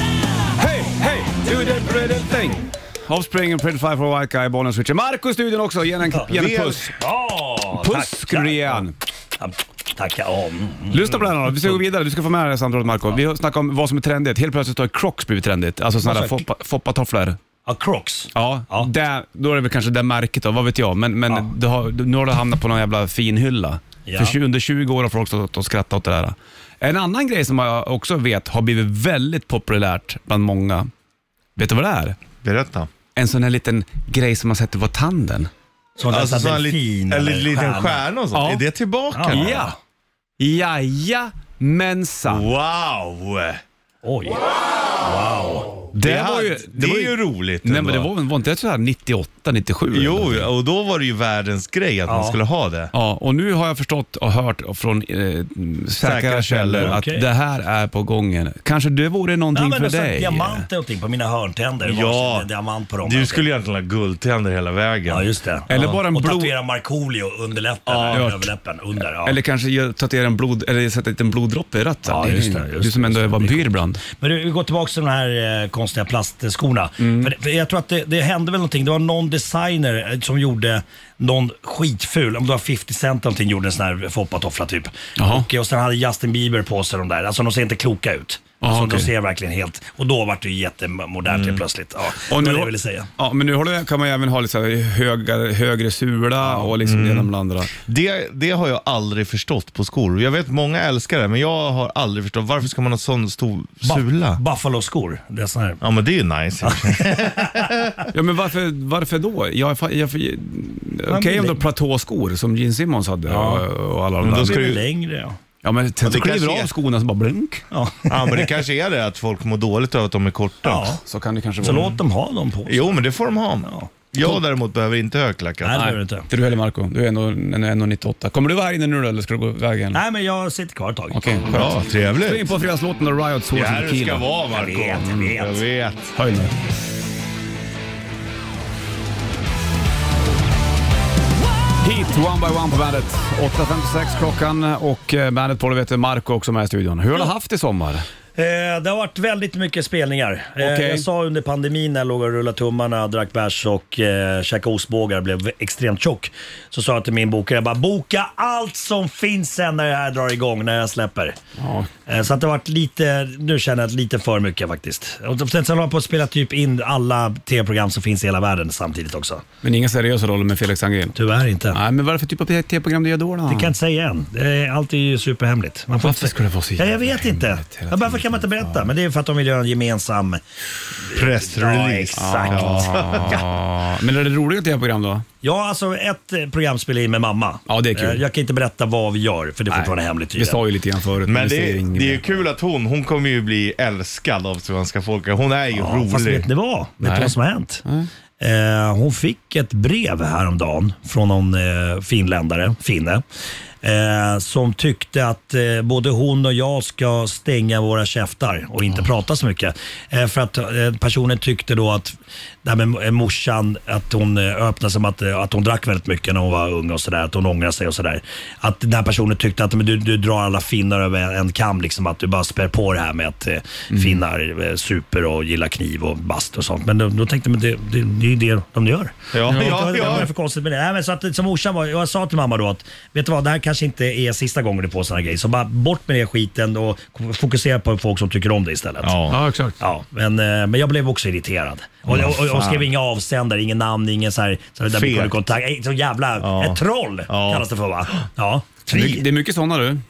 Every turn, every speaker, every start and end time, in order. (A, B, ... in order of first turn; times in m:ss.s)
0:00.6-0:07.0 A
0:06.3-0:06.9 B
0:07.0-0:11.0 C
0:07.7-0:09.0 A
0:10.9-0:17.4 A
0:16.0-0:16.4 C
0:17.7-0:18.9 C
0:18.3-0:30.9 A
0:24.1-0:24.4 C
0:31.6-0:32.2 A
0:32.4-0:32.9 B
0:33.2-0:35.5 A
0:36.0-0:38.0 C
0:36.1-0:39.6 B
0:38.3-0:38.6 A
0:39.1-0:39.7 C
0:39.3-0:39.8 A
0:40.4-0:42.5 A
0:42.2-0:43.6 B
0:44.0-0:44.4 C
0:45.0-0:45.8 C
0:45.9-0:50.5 A
0:46.0-0:48.1 B
0:49.9-0:52.9 B
0:52.1-0:52.4 C
0:52.9-1:00.7 A
0:56.0-0:57.0 B
0:56.8-0:57.2 C
0:59.5-1:03.4 C
1:01.8-1:02.5 B
1:03.0-1:05.3 B
1:05.1-1:09.4 C
1:05.7-1:06.5 A
1:07.9-1:08.3 B
1:08.1-1:08.5 A
1:09.2-1:14.0 A
1:12.1-1:33.1 C
1:17.0-1:17.3 A
1:25.2-1:25.5 A
1:28.6-1:29.1 A
1:31.3-1:31.6 B
1:32.3-1:37.7 A
1:36.4-1:44.4 B
1:43.8-1:45.8 C
1:45.8-1:48.1 B
1:46.6-1:48.1 C
1:48.1-1:54.8 A
1:51.1-1:51.6 C
1:53.3-1:53.6 C
1:54.2-1:54.8 B
1:54.2-1:55.4 C
1:55.6-1:57.6 A
1:56.0-1:56.7 B
1:57.7-1:58.6 C
1:58.1-2:01.0 B
2:00.6-2:01.0 C
2:01.0-2:02.0 A
2:01.6-2:03.0 C
2:02.7-2:05.9 B
2:03.6-2:04.4 C
2:05.6-2:06.3 C
2:05.7-2:10.0 A
2:09.9-2:11.4 C
2:11.1-2:14.3 A
2:11.5-2:12.5 B
2:13.5-2:16.2 B
2:14.5-2:15.6 C
2:15.0-2:15.3 A
2:16.2-2:16.5 A
2:21.8-2:28.1 A
2:28.4-2:41.4 C
2:30.6-2:31.1 A
2:41.6-2:41.9 A
2:42.1-2:49.4 C
2:49.6-2:51.2 A
2:51.2-2:51.8 C
2:51.7-2:53.7 A
2:53.5-3:00.4 C
2:56.0-2:58.9 A
3:01.0-3:03.4 C
3:01.1-3:03.4 B
3:02.1-3:05.2 A
3:05.4-3:10.6 C
3:07.7-3:08.2 A
3:09.7-3:12.3 A
3:11.3-3:16.5 B
3:15.7-3:17.8 C
3:17.0-3:18.1 A
3:18.4-3:23.2 C
3:23.8-3:59.2 C
3:43.9-3:44.2 A
3:49.3-3:50.3 B
3:59.0-3:59.4 B
3:59.3-3:59.8 A
3:59.8-4:09.3 C
4:02.1-4:02.9 B
4:04.9-4:05.4 B
4:06.4-4:07.7 B
4:08.9-4:10.0 A